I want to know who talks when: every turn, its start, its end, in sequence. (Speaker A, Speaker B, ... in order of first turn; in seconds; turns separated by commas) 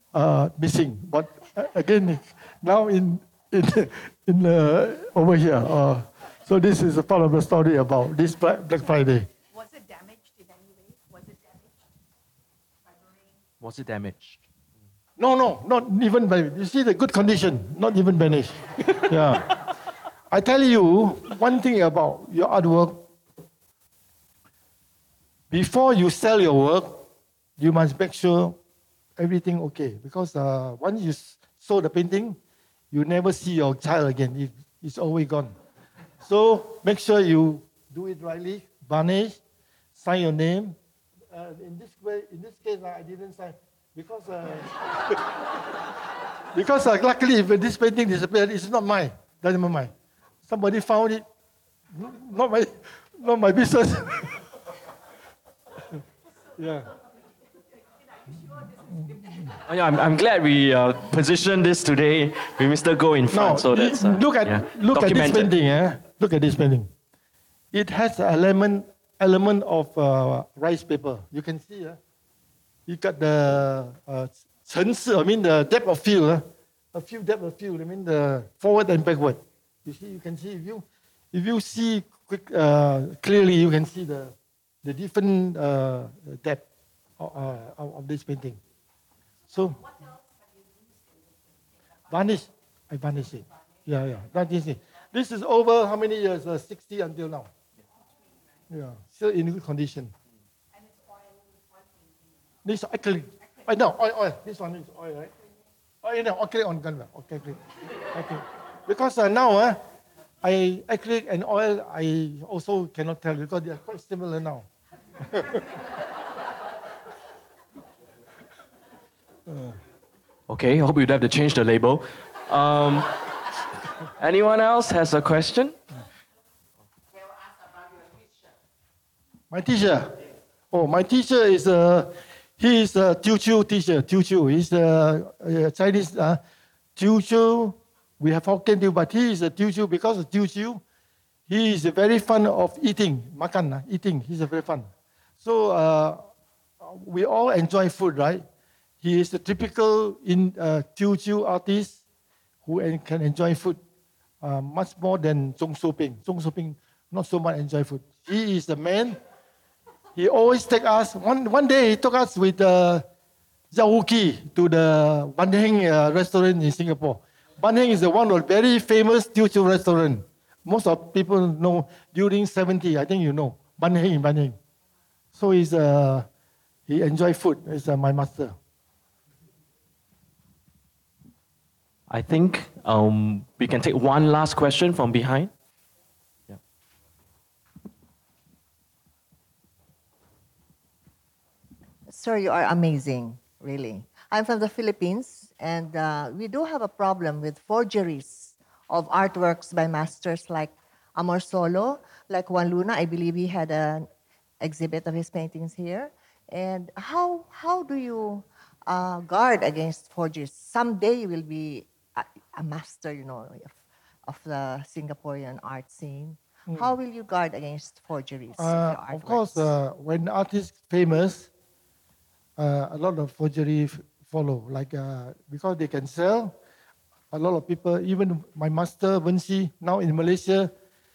Speaker A: 0.1-9.3, Speaker B: 9.5-11.8, Speaker B: 12.9-13.2, Speaker C: 13.6-14.4, Speaker A: 15.2-19.6, Speaker A: 20.3-23.0, Speaker A: 25.5-27.0, Speaker A: 27.6-28.6, Speaker A: 29.2-32.4, Speaker A: 32.9-35.5, Speaker A: 36.2-39.4, Speaker A: 40.0-40.8, Speaker A: 41.3-45.5, Speaker A: 46.5-49.9, Speaker A: 50.5-51.2, Speaker A: 51.9-54.4, Speaker A: 56.6-57.0, Speaker C: 59.6-65.5, Speaker A: 63.3-66.9, Speaker A: 67.7-72.0, Speaker A: 72.9-86.6, Speaker A: 87.2-88.6, Speaker A: 89.5-89.9, Speaker A: 92.1-97.5, Speaker A: 98.7-100.1, Speaker B: 100.8-101.9, Speaker A: 102.6-105.3, Speaker A: 106.0-109.8, Speaker A: 110.4-114.7, Speaker A: 115.2-115.7, Speaker A: 119.5-119.8, Speaker C: 120.5-123.1, Speaker C: 124.2-125.8, Speaker A: 129.5-130.2, Speaker A: 130.7-136.4, Speaker A: 137.0-140.8, Speaker A: 141.5-144.9, Speaker A: 145.4-146.2, Speaker A: 146.8-148.4, Speaker A: 149.0-152.0, Speaker A: 152.7-153.8, Speaker A: 154.4-159.2, Speaker A: 160.2-163.0, Speaker A: 163.7-174.6, Speaker A: 175.3-176.3, Speaker A: 176.9-178.6, Speaker C: 182.1-185.5, Speaker D: 192.1-204.1, Speaker D: 204.6-213.8, Speaker D: 214.3-219.7, Speaker A: 216.7-216.9, Speaker A: 218.6-221.5, Speaker A: 222.6-226.6, Speaker A: 227.3-230.7